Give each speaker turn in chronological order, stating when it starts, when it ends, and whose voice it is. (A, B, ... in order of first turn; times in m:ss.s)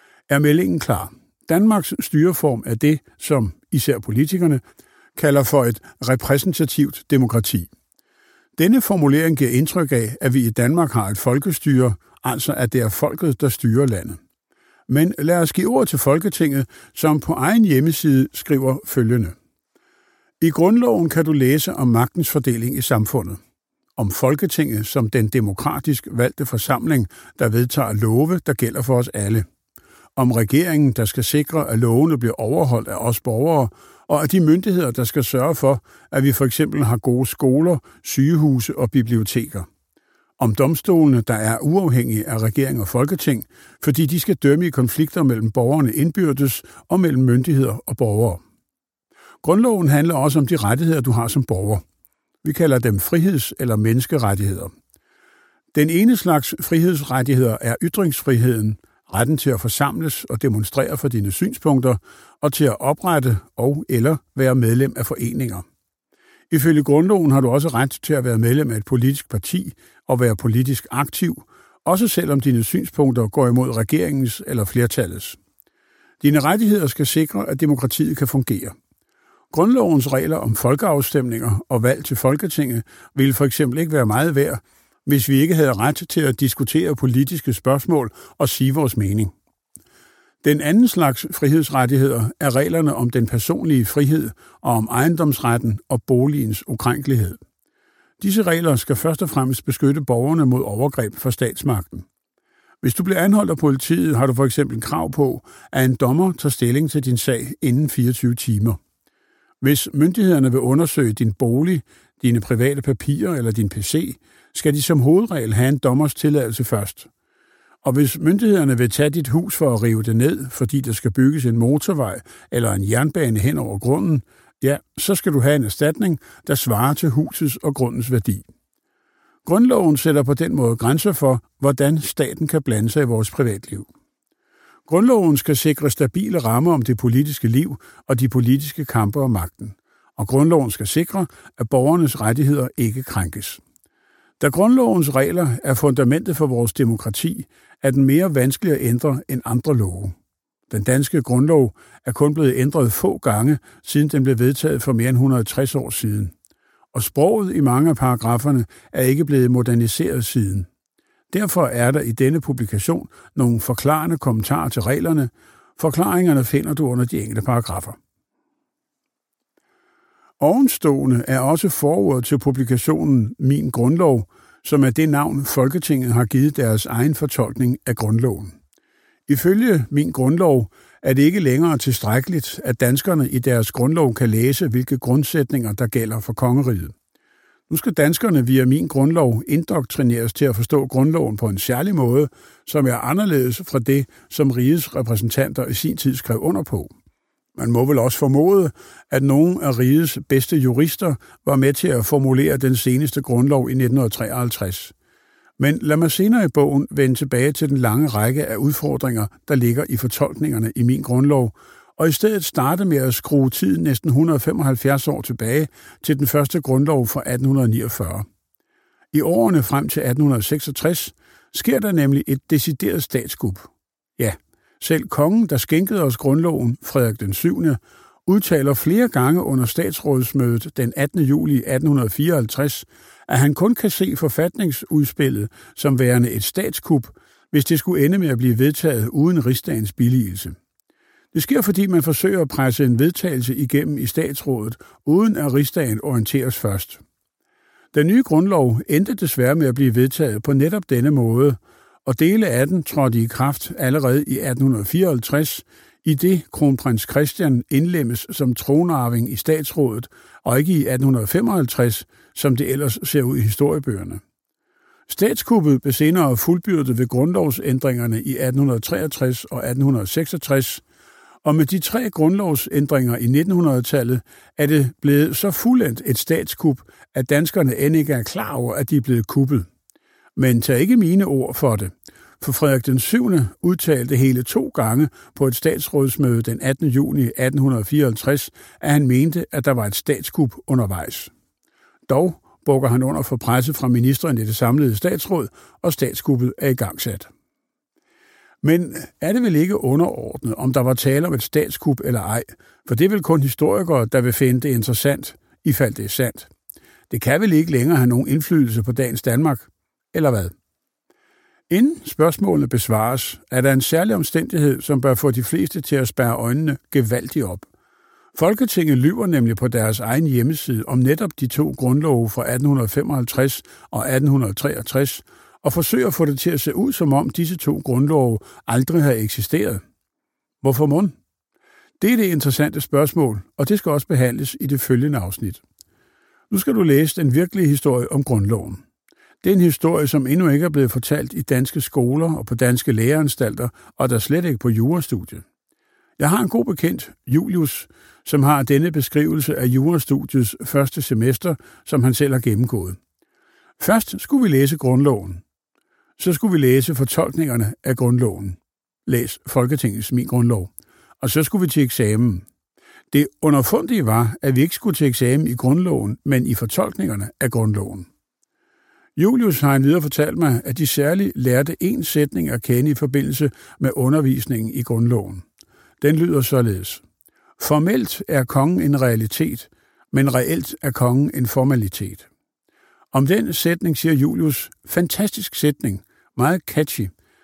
0:00.3-0:04.6 A
0:05.2-0:07.7 A
0:08.6-0:14.2 A
0:14.9-0:19.4 A
0:20.4-0:23.4 A
0:24.0-0:29.4 A
0:30.2-0:39.7 A
0:40.4-0:48.4 A
0:49.4-0:51.8 A
0:52.4-0:54.7 A
0:55.7-1:05.6 A
1:06.5-1:15.4 A
1:16.2-1:18.7 A
1:19.5-1:29.3 A
1:30.4-1:37.4 A
1:38.2-1:42.0 A
1:42.8-1:48.8 A
1:49.6-1:57.1 A
1:57.8-2:08.5 A
2:09.4-2:13.9 A
2:14.9-2:23.6 A
2:24.4-2:30.1 A
2:30.7-2:36.3 A
2:36.9-2:40.7 A
2:41.3-2:48.0 A
2:50.4-2:58.6 A
2:59.3-3:06.9 A
3:07.7-3:16.9 A
3:17.6-3:24.9 A
3:25.6-3:38.2 A
3:39.1-4:00.6 A
4:01.3-4:07.0 A
4:07.9-4:24.2 A
4:25.1-4:30.8 A
4:31.4-4:39.7 A
4:40.4-4:51.3 A
4:52.1-4:57.3 A
4:58.6-5:06.5 A
5:07.1-5:10.5 A
5:11.7-5:17.7 A
5:18.3-5:29.8 A
5:30.6-5:31.1 A
5:32.0-5:35.6 A
5:36.5-5:38.8 A
5:39.4-5:45.4 A
5:46.2-5:53.0 A
5:53.8-5:55.4 A
5:56.2-6:02.4 A
6:03.1-6:08.1 A
6:09.2-6:15.4 A
6:16.0-6:17.0 A
6:17.6-6:22.3 A
6:23.1-6:27.1 A